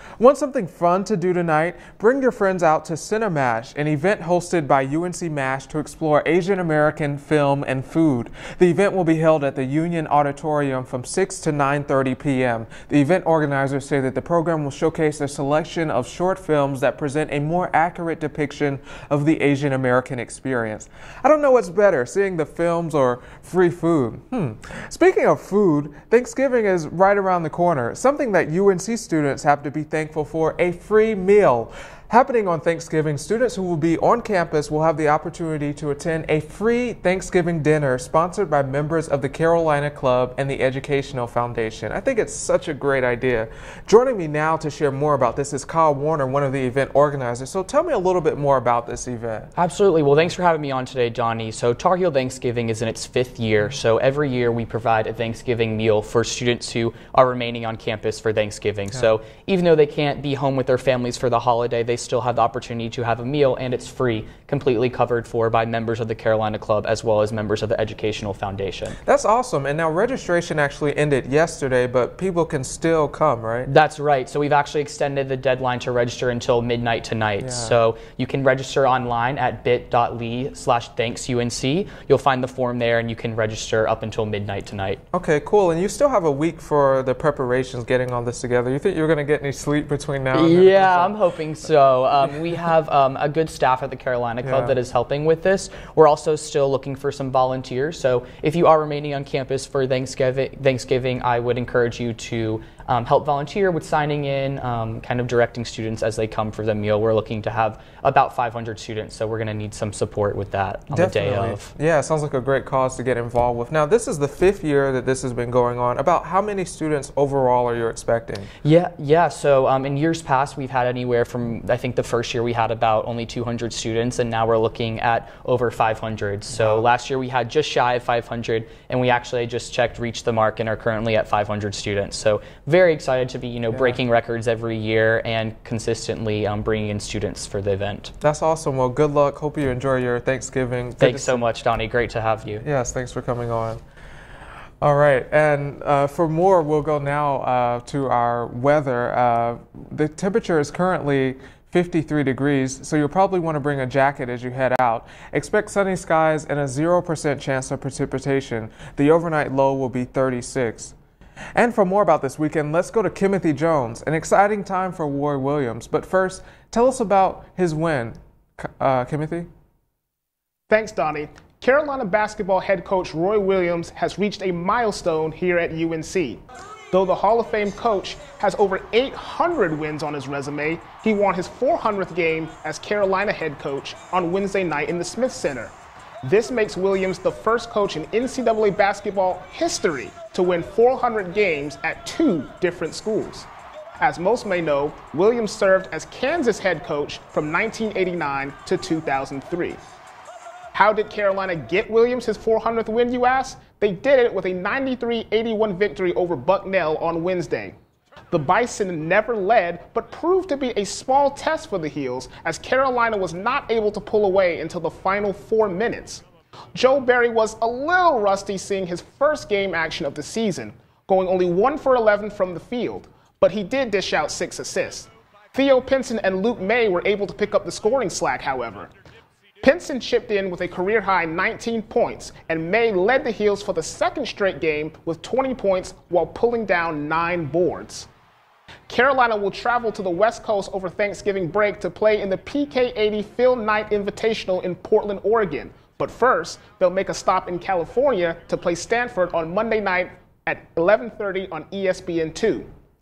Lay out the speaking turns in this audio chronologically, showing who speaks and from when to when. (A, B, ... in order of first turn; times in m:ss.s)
0:00.2-0:49.5 A
0:49.6-1:09.0 B
1:09.0-1:13.7 A
1:13.6-1:25.0 B
1:17.4-1:17.8 A
1:25.1-1:31.2 A
1:30.3-1:51.7 B
1:34.4-1:34.8 A
1:50.9-1:58.5 A
1:58.6-2:18.1 B
2:13.7-2:14.0 A
2:18.2-2:21.4 A
2:21.0-2:22.6 B
2:22.6-2:23.8 A
2:24.8-2:40.9 A
2:41.5-2:49.5 A
2:50.7-2:56.4 C
2:56.9-3:13.5 C
3:14.0-3:19.8 C
3:20.7-3:27.7 C
3:28.3-3:36.2 C
3:36.7-3:48.9 C
3:49.6-3:58.1 C
3:58.9-4:12.7 C